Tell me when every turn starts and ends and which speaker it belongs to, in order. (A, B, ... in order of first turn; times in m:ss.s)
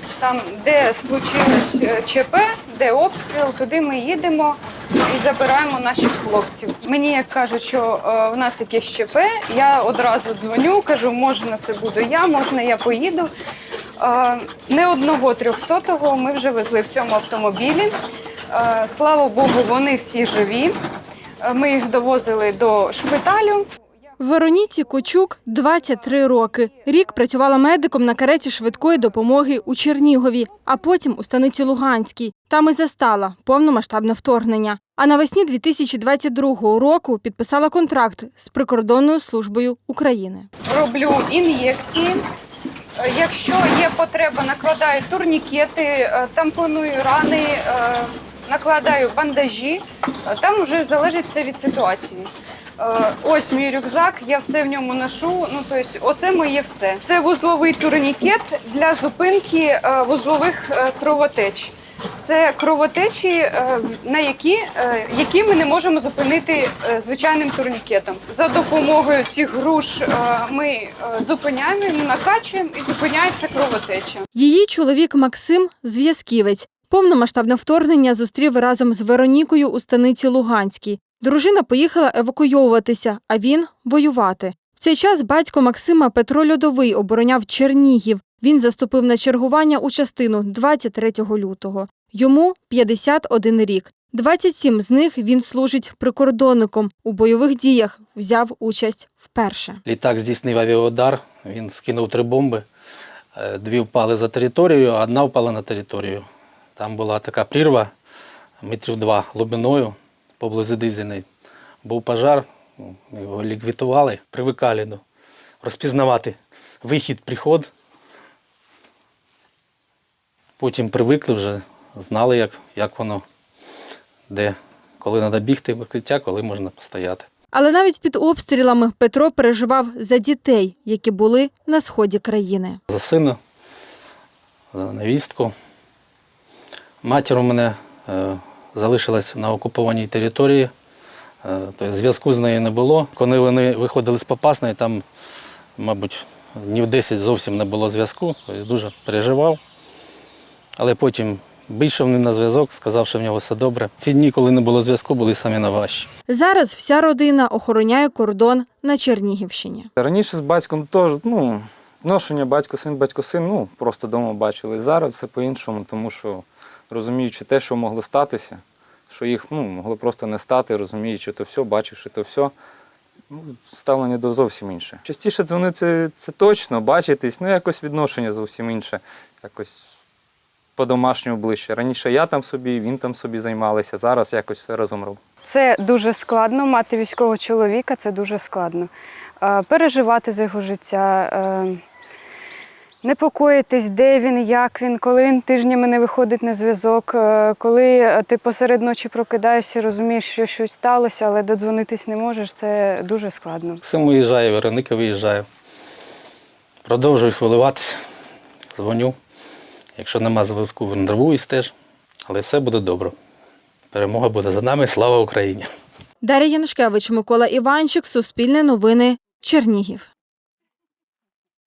0:00.2-0:13.3 A
0:14.0-0:17.9 A
0:18.5-0:20.7 A
0:21.4-0:23.7 A
0:24.2-0:40.5 B
0:40.7-0:42.2 A
0:43.0-1:14.2 A
1:14.3-1:39.8 B
1:39.9-1:42.7 C
1:43.4-1:47.9 C
1:48.6-1:51.3 C
1:51.8-1:55.0 C
1:55.6-1:57.7 C
2:00.6-2:03.2 C
2:04.3-2:07.3 C
2:07.5-2:12.8 B
2:12.9-2:13.4 C
2:14.7-2:15.5 C
2:17.0-2:20.7 C
2:21.4-2:25.0 C
2:25.8-2:29.6 C
2:30.8-2:36.1 C
2:36.3-2:39.9 B
2:40.0-2:48.6 D
2:49.1-2:52.5 D
2:53.3-2:59.7 D
3:00.8-3:05.2 D
3:05.4-3:08.9 A
3:09.4-3:11.8 A
3:13.0-3:23.8 A
3:23.8-3:25.5 C
3:26.9-3:28.0 C
3:28.7-3:29.2 C
3:30.0-3:31.7 C
3:32.3-3:33.2 C
3:33.9-3:35.7 C
3:36.2-3:40.1 B